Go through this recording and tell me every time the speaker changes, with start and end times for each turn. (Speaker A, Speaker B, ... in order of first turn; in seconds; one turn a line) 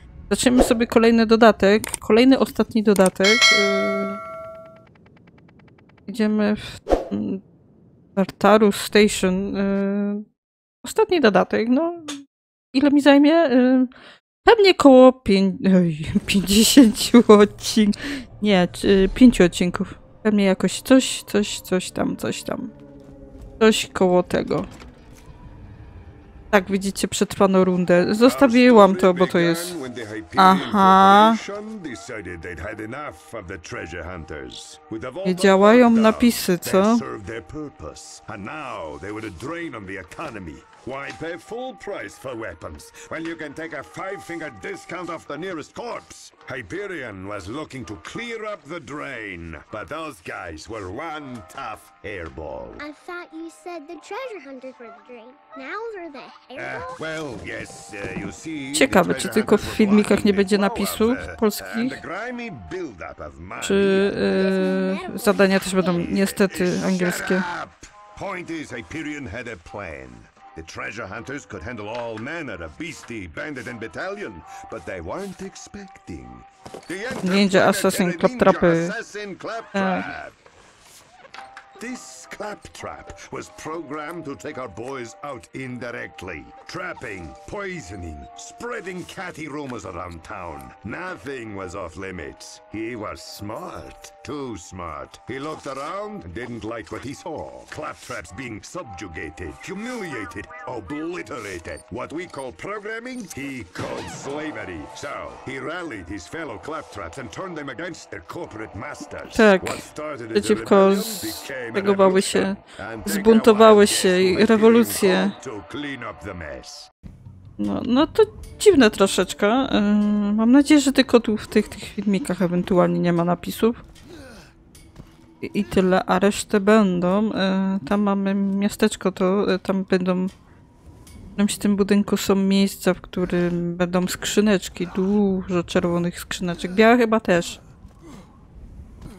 Speaker A: 0.3-4.2
Speaker A: 6.1-7.4
Speaker A: 8.2-10.2
Speaker A: 10.8-13.9
Speaker A: 14.4-22.7
Speaker A: 23.6-24.7
Speaker A: 26.5-29.8
Speaker B: 28.2-52.8
Speaker A: 30.4-31.4
Speaker A: 35.2-37.0
Speaker C: 52.8-57.0
Speaker B: 56.5-64.2
Speaker A: 58.7-62.0
Speaker A: 63.6-67.5
Speaker C: 64.1-66.1
Speaker B: 65.8-80.3
Speaker A: 77.2-78.9
Speaker A: 79.7-80.1
Speaker B: 81.8-116.9
Speaker A: 109.3-115.3
Speaker A: 117.6-123.8
Speaker A: 125.4-130.3
Speaker A: 131.3-137.6